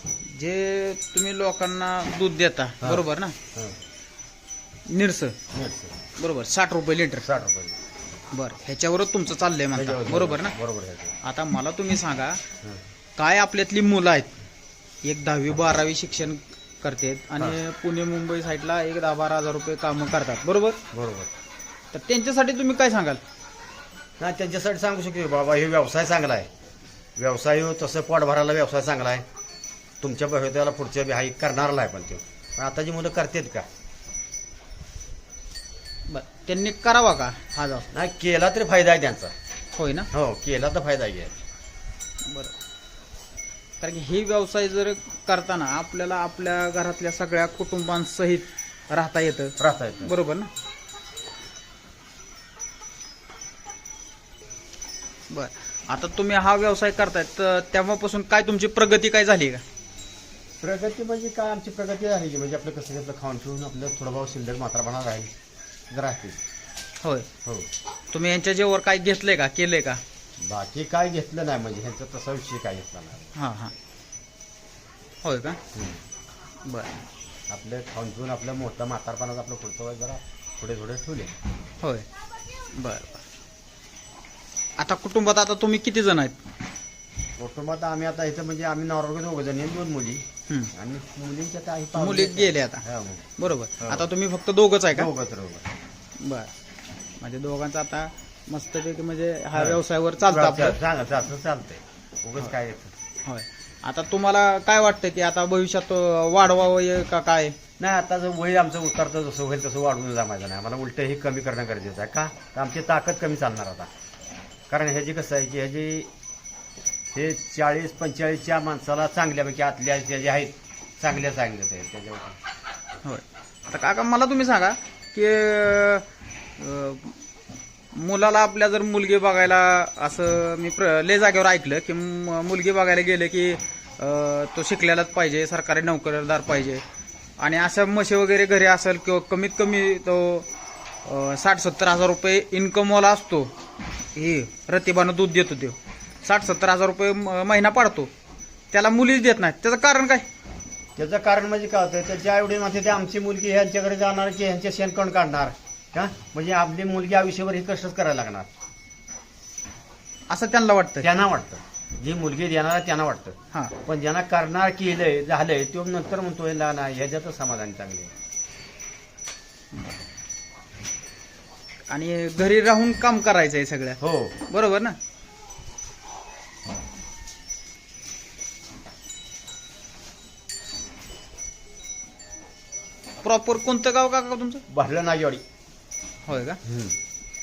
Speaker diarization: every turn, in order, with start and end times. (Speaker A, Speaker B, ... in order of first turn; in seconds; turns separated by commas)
Speaker A: 0.2-3.4, Speaker B: 2.8-3.8, Speaker A: 4.9-5.4, Speaker B: 5.5-6.0, Speaker A: 6.2-7.3, Speaker B: 7.2-7.8, Speaker A: 8.3-10.5, Speaker B: 9.8-11.2, Speaker A: 11.2-12.4, Speaker A: 13.2-14.4, Speaker A: 15.0-20.8, Speaker B: 20.9-21.3, Speaker A: 21.9-23.2, Speaker B: 24.2-26.5, Speaker B: 27.2-29.2, Speaker B: 30.0-33.7, Speaker A: 36.1-37.9, Speaker B: 37.9-39.3, Speaker A: 39.8-40.1, Speaker B: 40.1-41.4, Speaker A: 42.2-42.5, Speaker A: 43.8-50.5, Speaker B: 49.6-50.1, Speaker A: 55.3-59.6, Speaker B: 60.6-65.3, Speaker B: 65.9-66.4, Speaker A: 67.0-67.3, Speaker A: 68.1-70.0, Speaker B: 70.4-73.3, Speaker A: 73.3-73.7, Speaker A: 75.2-75.6, Speaker B: 75.7-76.0, Speaker A: 76.7-77.0, Speaker B: 77.5-81.3, Speaker A: 81.8-82.1, Speaker A: 82.8-83.2, Speaker A: 84.8-86.4, Speaker B: 87.4-93.3, Speaker A: 92.0-92.8, Speaker A: 93.4-95.1, Speaker B: 93.8-94.1, Speaker B: 94.9-95.7, Speaker A: 96.2-96.5, Speaker A: 97.2-100.8, Speaker B: 99.5-102.9, Speaker A: 103.2-107.6, Speaker B: 107.8-113.9, Speaker B: 114.7-116.1, Speaker B: 117.1-122.4, Speaker A: 123.0-126.0, Speaker A: 126.6-127.2, Speaker A: 127.9-136.8, Speaker A: 137.4-140.5, Speaker A: 141.1-143.5, Speaker A: 144.2-148.1, Speaker A: 148.7-150.2, Speaker B: 151.0-158.5, Speaker A: 160.3-161.1, Speaker B: 161.0-168.1, Speaker A: 169.7-170.0, Speaker A: 171.9-175.0, Speaker B: 174.0-174.4, Speaker A: 183.2-184.6, Speaker B: 184.7-185.4, Speaker A: 186.3-186.6, Speaker B: 186.6-187.0